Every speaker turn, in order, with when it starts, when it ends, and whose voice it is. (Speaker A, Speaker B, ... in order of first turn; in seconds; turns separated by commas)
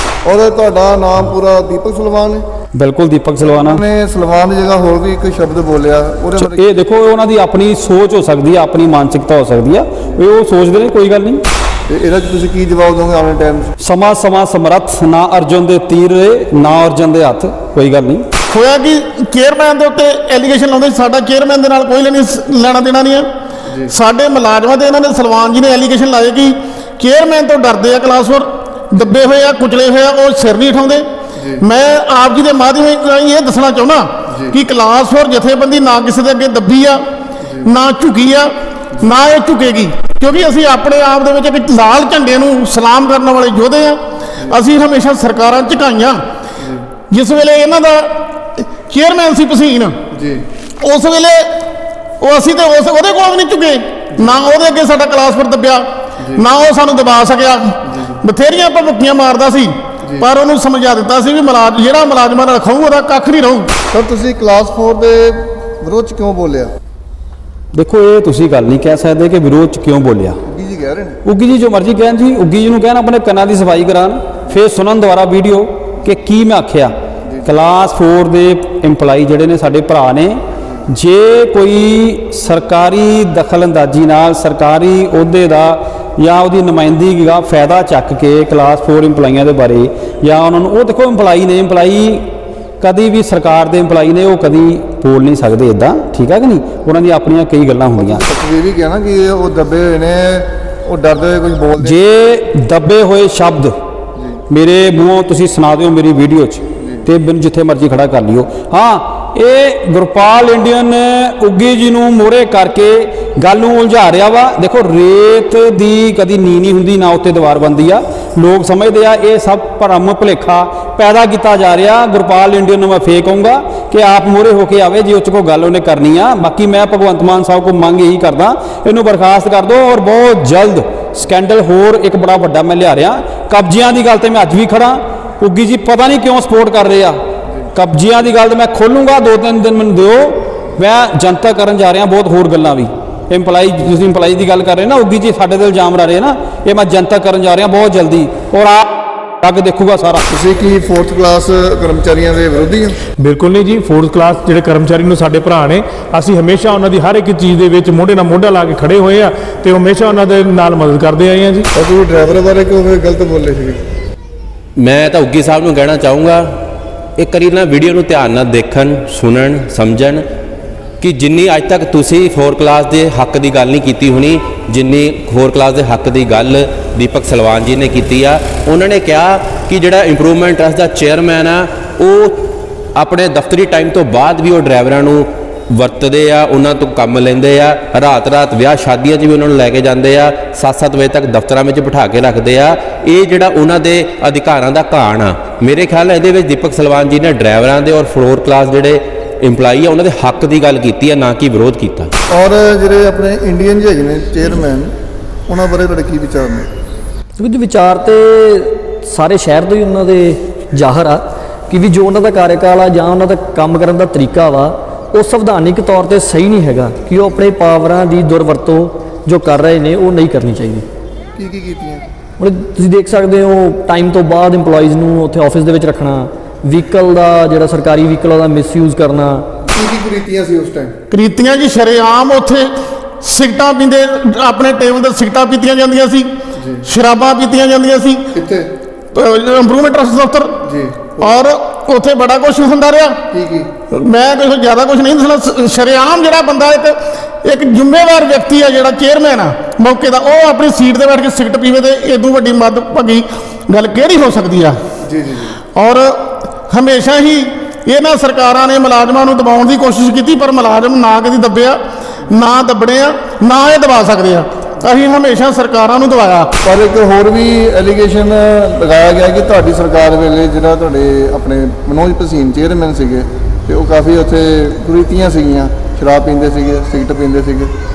Speaker A: 0.2-2.5, Speaker B: 2.8-3.8, Speaker A: 3.5-6.6, Speaker B: 6.4-11.4, Speaker A: 11.9-13.7, Speaker B: 13.8-18.3, Speaker C: 18.5-23.3, Speaker A: 23.7-23.9, Speaker C: 23.9-31.1, Speaker A: 31.4-31.6, Speaker C: 31.6-37.0, Speaker A: 34.3-34.6, Speaker A: 37.4-37.7, Speaker C: 37.6-46.2, Speaker A: 46.6-46.9, Speaker C: 47.1-50.0, Speaker A: 50.1-50.5, Speaker C: 50.8-51.5, Speaker C: 52.2-63.7, Speaker A: 57.9-58.2, Speaker A: 63.9-66.7, Speaker B: 67.7-70.4, Speaker A: 70.5-71.2, Speaker B: 71.2-76.9, Speaker A: 77.3-77.5, Speaker B: 77.5-92.3, Speaker B: 92.8-98.2, Speaker A: 98.0-102.0, Speaker B: 101.8-103.7, Speaker B: 104.5-137.2, Speaker A: 106.8-107.1, Speaker B: 137.7-148.9, Speaker B: 149.4-150.2, Speaker A: 150.3-153.0, Speaker D: 153.2-161.7, Speaker A: 161.8-163.8, Speaker E: 164.8-166.5, Speaker E: 167.2-170.2, Speaker E: 171.0-182.4, Speaker E: 183.0-202.1, Speaker A: 202.3-204.9, Speaker A: 205.5-206.7, Speaker F: 207.4-220.9, Speaker A: 221.4-222.0, Speaker F: 222.4-229.5, Speaker A: 229.7-231.0, Speaker C: 231.1-236.3, Speaker A: 236.6-236.8, Speaker C: 236.8-238.3, Speaker A: 238.3-238.7, Speaker C: 239.1-240.6, Speaker A: 240.7-241.4, Speaker C: 241.2-243.2, Speaker A: 243.3-243.7, Speaker C: 243.9-254.8, Speaker A: 255.0-255.6, Speaker C: 255.8-266.5, Speaker A: 266.6-277.7